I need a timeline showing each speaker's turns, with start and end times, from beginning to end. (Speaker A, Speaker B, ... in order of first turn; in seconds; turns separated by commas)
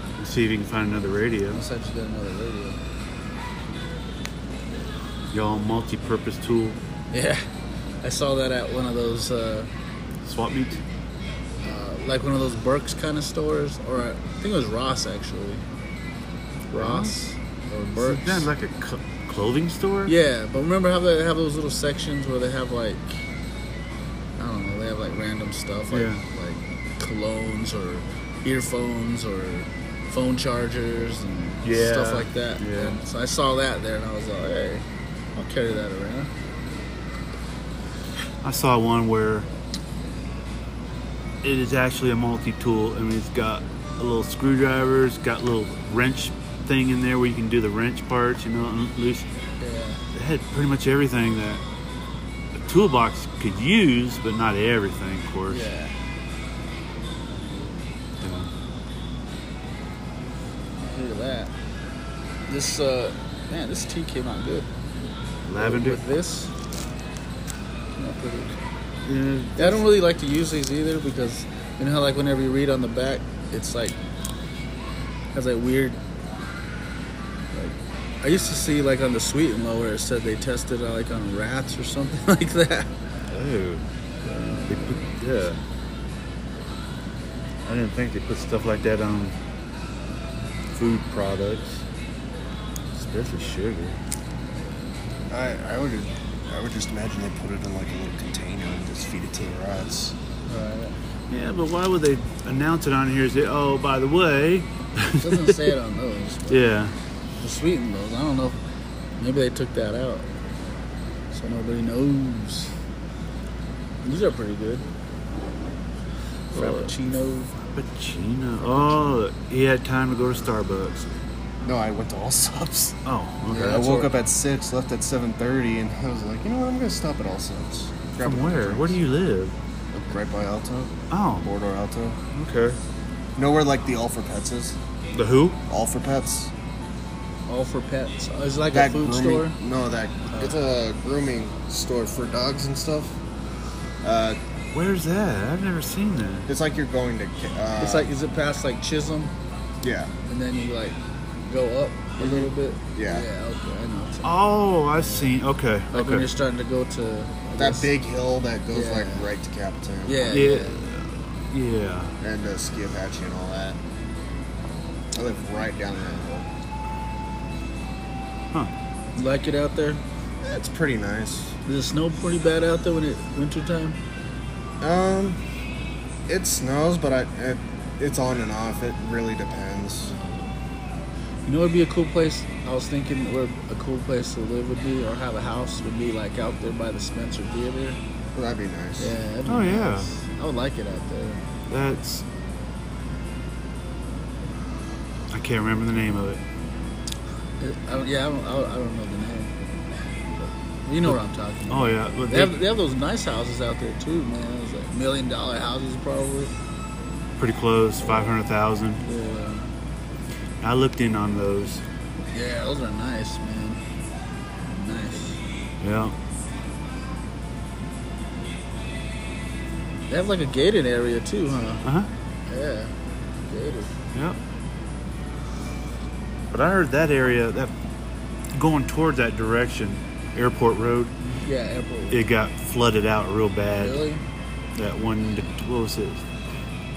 Speaker A: 0.2-1.6, Speaker B: 1.5-2.8, Speaker A: 5.3-6.8, Speaker B: 7.1-7.5, Speaker B: 8.0-9.7, Speaker A: 10.2-10.8, Speaker B: 11.6-15.6, Speaker B: 16.7-18.5, Speaker A: 16.8-17.2, Speaker A: 18.0-20.1, Speaker B: 20.1-23.2, Speaker B: 24.4-34.9, Speaker A: 25.9-26.2, Speaker A: 31.6-33.0, Speaker B: 35.4-36.3, Speaker A: 38.4-39.5, Speaker A: 41.4-49.3, Speaker B: 49.6-50.0, Speaker A: 50.1-51.6, Speaker A: 52.6-55.6, Speaker B: 55.5-55.9, Speaker A: 58.2-58.5, Speaker B: 60.8-61.5, Speaker B: 62.5-64.7, Speaker A: 65.5-66.0, Speaker B: 65.6-66.5, Speaker B: 68.0-68.6, Speaker A: 69.0-69.9, Speaker B: 69.6-74.0, Speaker B: 75.3-76.0, Speaker B: 77.5-82.9, Speaker A: 83.3-85.6, Speaker B: 84.2-85.2, Speaker A: 87.7-89.3, Speaker A: 90.7-91.8, Speaker A: 92.9-94.0, Speaker C: 95.3-100.2, Speaker B: 100.5-100.9, Speaker A: 101.3-105.7, Speaker B: 105.2-106.7, Speaker A: 106.5-107.0, Speaker B: 107.4-108.6, Speaker B: 109.2-110.3, Speaker B: 111.3-112.8, Speaker B: 114.0-114.9, Speaker B: 116.5-117.5, Speaker A: 116.5-116.9, Speaker A: 117.7-121.2, Speaker C: 121.6-123.0, Speaker A: 123.1-123.9, Speaker B: 123.5-124.1, Speaker C: 123.6-129.0, Speaker A: 128.2-129.6, Speaker C: 129.9-132.2, Speaker A: 131.1-131.5, Speaker A: 132.3-132.8, Speaker C: 133.4-134.8, Speaker A: 135.1-135.6, Speaker C: 135.7-136.5, Speaker B: 137.5-139.6, Speaker C: 138.7-143.2, Speaker C: 144.0-144.4, Speaker A: 144.7-146.5, Speaker C: 146.5-148.1, Speaker B: 147.8-149.3, Speaker C: 149.8-150.1, Speaker B: 150.3-154.4, Speaker C: 152.2-153.3, Speaker A: 154.2-156.3, Speaker B: 154.9-155.3, Speaker B: 155.9-157.9, Speaker C: 157.6-160.3, Speaker B: 158.7-159.3, Speaker B: 160.1-160.8, Speaker A: 160.3-162.1, Speaker C: 162.2-163.8, Speaker C: 165.2-166.5, Speaker B: 169.2-170.0, Speaker C: 170.4-171.6, Speaker B: 171.7-174.0, Speaker C: 174.8-175.4, Speaker C: 176.3-180.2, Speaker B: 180.1-180.5, Speaker B: 181.5-188.0, Speaker C: 188.3-189.1, Speaker B: 189.0-191.5, Speaker A: 189.5-190.1, Speaker A: 191.7-192.2, Speaker A: 195.3-196.4, Speaker B: 197.6-199.6, Speaker B: 200.4-206.5, Speaker A: 201.7-202.6, Speaker A: 207.4-209.0, Speaker B: 208.0-208.4, Speaker B: 209.0-209.7, Speaker A: 210.6-211.8, Speaker B: 212.3-213.8, Speaker B: 214.7-215.4, Speaker A: 215.8-216.2, Speaker B: 220.1-221.8, Speaker A: 221.8-222.1, Speaker B: 222.5-223.9, Speaker A: 226.5-227.7, Speaker A: 228.5-231.2, Speaker B: 231.2-232.3, Speaker A: 232.1-234.0, Speaker B: 233.8-234.2, Speaker A: 234.8-236.2